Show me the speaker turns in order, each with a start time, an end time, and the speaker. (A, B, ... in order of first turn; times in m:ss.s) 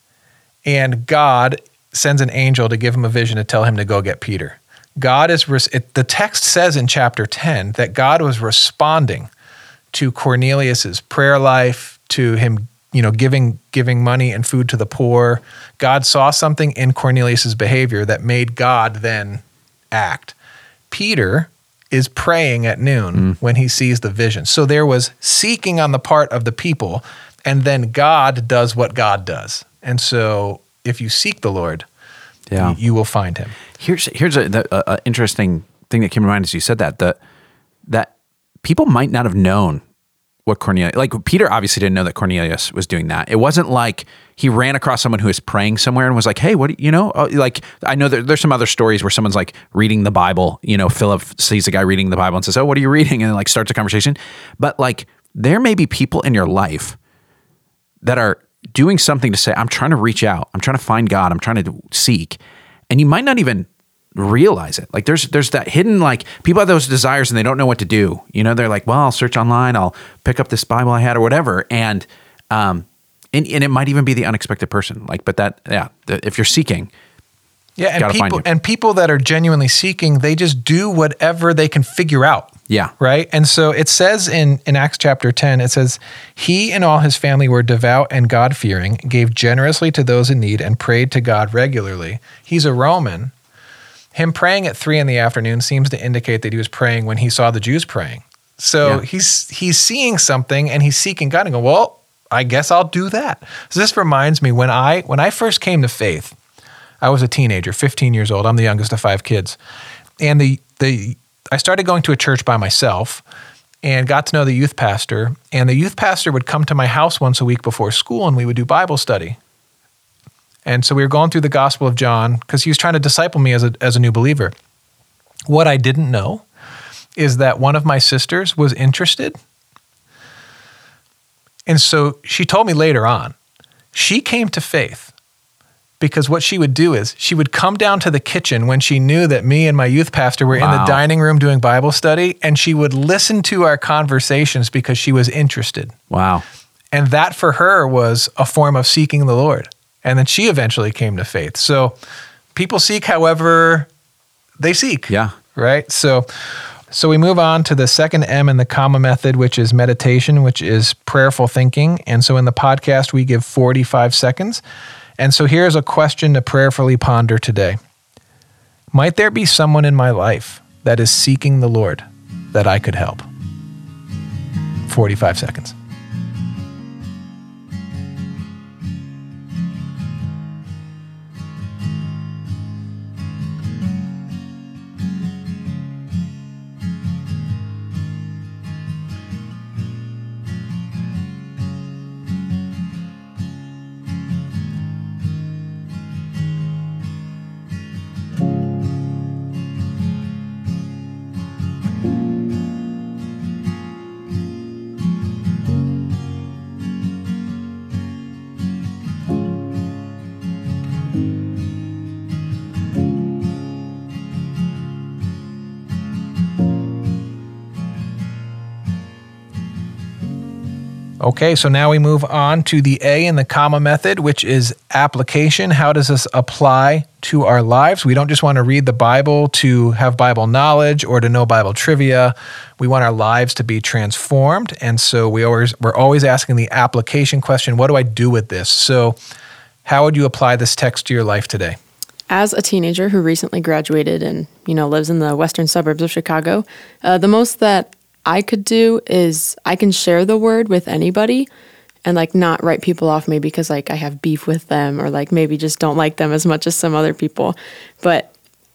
0:00.6-0:09.3 A
0:09.9-0:20.4 A
0:20.9-0:31.9 A
0:32.5-0:32.8 B
0:32.6-0:33.6 A
0:33.8-0:37.2 B
0:38.6-0:39.8 B
0:40.5-0:57.0 B
0:58.0-1:02.4 B
1:02.9-1:16.9 B
1:17.8-1:33.3 A
1:18.0-1:18.4 B
1:34.1-1:46.4 A
1:47.0-1:49.6 A
1:50.2-1:53.2 A
1:53.8-1:59.4 A
2:00.6-2:04.5 A
2:05.5-2:06.4 A
2:07.2-2:09.4 A
2:11.7-2:13.4 A
2:13.9-2:15.1 A
2:16.0-2:25.9 A
2:20.5-2:21.0 B
2:26.1-2:26.4 B
2:26.9-2:32.0 A
2:32.6-2:33.9 A
2:34.6-2:36.3 A
2:36.9-2:44.6 A
2:45.2-2:47.8 A
2:48.9-2:53.3 A
2:54.9-2:55.8 A
3:41.2-3:59.2 A
3:59.8-4:01.8 A
4:02.3-4:11.5 C
4:12.0-4:18.3 C